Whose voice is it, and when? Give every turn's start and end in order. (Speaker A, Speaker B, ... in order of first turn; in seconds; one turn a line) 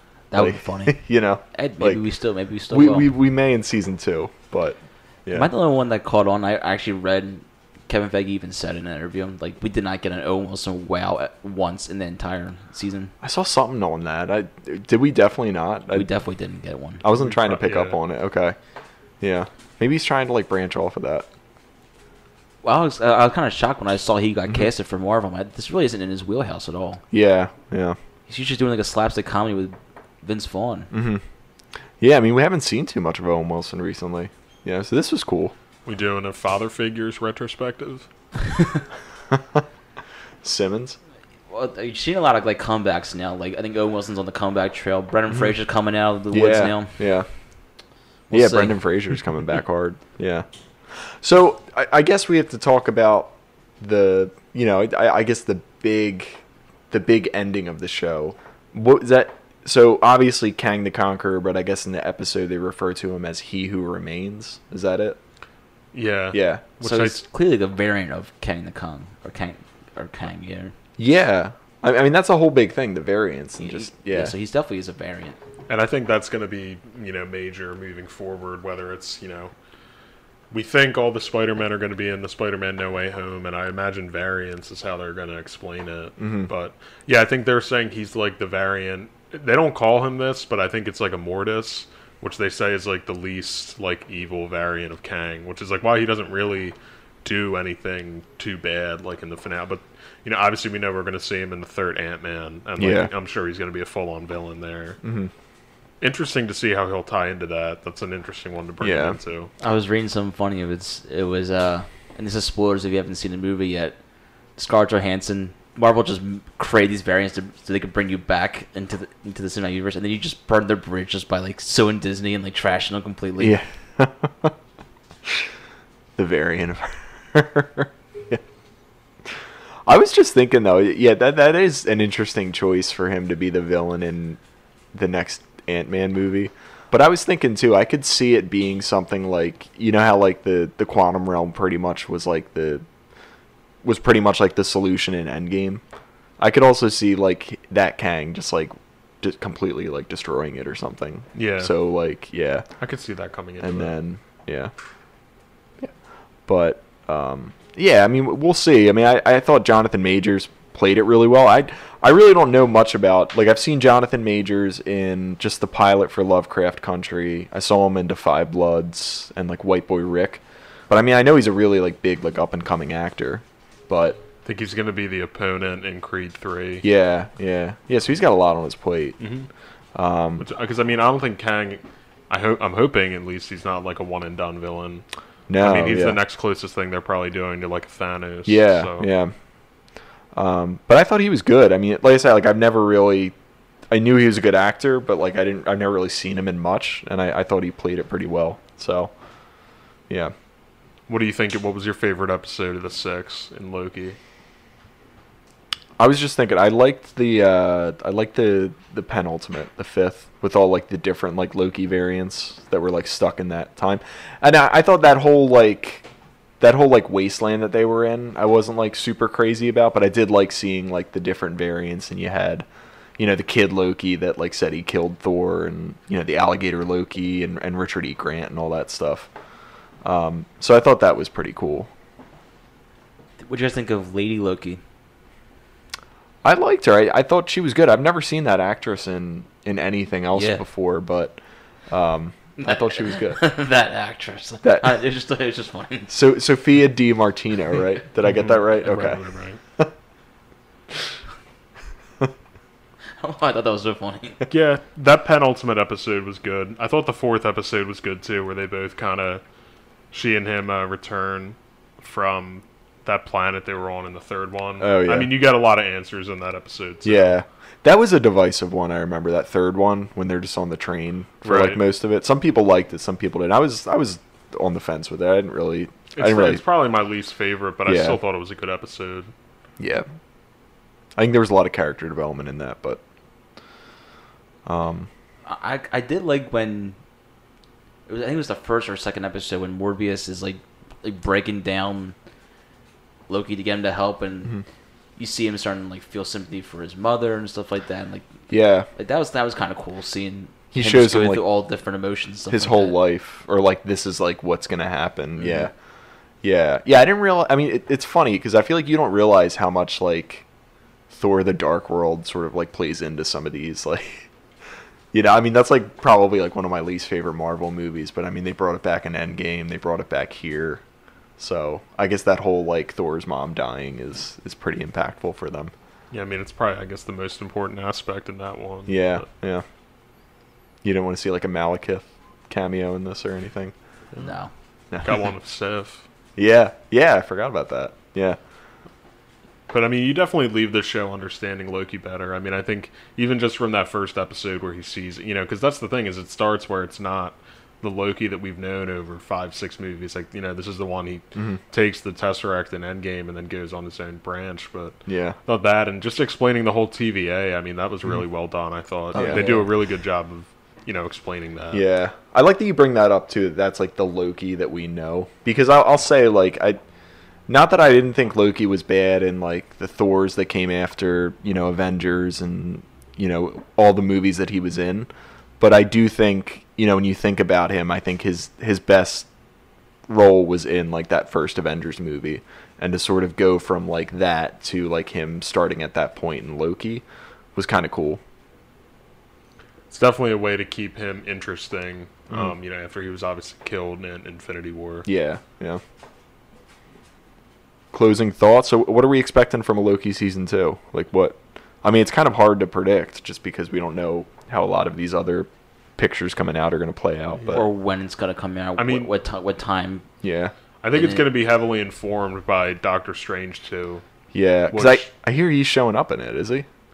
Speaker A: 0.3-3.1
Speaker B: 0.3-2.0
Speaker B: 2.7-5.5
Speaker A: 5.3-13.1
Speaker B: 13.2-16.1
Speaker A: 15.9-17.0
Speaker B: 17.0-18.6
Speaker C: 17.1-18.0
Speaker B: 19.2-21.3
Speaker A: 22.6-27.0
Speaker B: 27.1-28.0
Speaker A: 28.3-30.9
Speaker B: 30.9-31.2
Speaker B: 32.0-35.5
Speaker C: 35.9-38.0
Speaker B: 39.3-39.6
Speaker B: 40.4-41.0
Speaker A: 41.5-47.0
Speaker B: 46.3-47.3
Speaker A: 48.3-48.8
Speaker B: 48.3-65.2
Speaker C: 65.9-67.2
Speaker B: 66.3-66.6
Speaker A: 66.8-70.7
Speaker B: 71.0-74.3
Speaker A: 73.6-75.4
Speaker C: 75.7-79.5
Speaker C: 80.5-105.0
Speaker B: 86.2-86.5
Speaker B: 102.8-103.1
Speaker B: 105.0-105.3
Speaker C: 106.0-109.5
Speaker B: 108.8-109.2
Speaker A: 109.6-114.0
Speaker A: 114.6-123.6
Speaker B: 123.4-124.5
Speaker B: 126.2-128.4
Speaker B: 129.8-134.4
Speaker B: 134.9-142.8
Speaker B: 143.8-145.8
Speaker B: 146.4-152.7
Speaker C: 151.3-151.7
Speaker C: 152.8-153.9
Speaker B: 153.6-154.7
Speaker B: 156.5-174.2
Speaker C: 174.4-176.8
Speaker B: 176.8-179.2
Speaker C: 179.2-179.5
Speaker B: 179.9-180.5
Speaker C: 180.4-185.0
Speaker B: 185.5-186.2
Speaker C: 185.6-189.1
Speaker B: 188.4-189.3
Speaker B: 190.3-193.3
Speaker B: 193.9-199.1
Speaker B: 200.1-200.3
Speaker C: 201.1-204.2
Speaker B: 206.0-216.1
Speaker B: 216.6-222.7
Speaker B: 223.2-229.3
Speaker B: 230.0-231.9
Speaker A: 233.4-234.8
Speaker B: 236.4-241.4
Speaker A: 240.3-240.6
Speaker B: 241.9-243.4
Speaker A: 242.6-246.1
Speaker B: 244.6-244.9
Speaker B: 246.1-249.2
Speaker C: 248.2-249.6
Speaker A: 253.2-254.4
Speaker C: 254.5-259.4
Speaker C: 260.1-267.4
Speaker B: 264.8-265.3
Speaker B: 267.0-276.6
Speaker C: 271.4-271.8
Speaker C: 276.1-279.3
Speaker B: 277.9-278.2
Speaker B: 279.8-280.1
Speaker B: 281.1-283.0
Speaker B: 284.6-285.1
Speaker A: 285.4-287.0
Speaker A: 288.1-292.1
Speaker A: 293.3-294.6
Speaker A: 295.2-298.3
Speaker B: 298.5-298.9
Speaker A: 298.9-303.0
Speaker B: 300.7-301.4
Speaker B: 302.5-305.7
Speaker A: 305.4-305.7
Speaker B: 306.4-310.4
Speaker B: 311.1-314.3
Speaker B: 315.1-320.8
Speaker B: 321.4-325.7
Speaker C: 326.1-329.2
Speaker B: 328.9-329.6
Speaker B: 330.8-333.7
Speaker A: 334.2-334.5
Speaker B: 334.9-335.2
Speaker C: 335.0-336.0
Speaker B: 336.4-338.4
Speaker C: 339.7-361.8
Speaker B: 355.1-355.3
Speaker B: 359.1-359.6
Speaker A: 359.2-359.6
Speaker B: 361.7-366.8
Speaker B: 367.5-379.3
Speaker B: 380.1-387.0
Speaker B: 387.5-388.2
Speaker C: 389.9-395.1
Speaker B: 395.0-395.8
Speaker B: 397.9-407.6
Speaker A: 407.5-410.1
Speaker C: 408.8-409.1
Speaker B: 410.2-410.5
Speaker C: 410.8-414.0
Speaker A: 410.9-411.3
Speaker B: 414.3-416.7
Speaker C: 414.7-415.1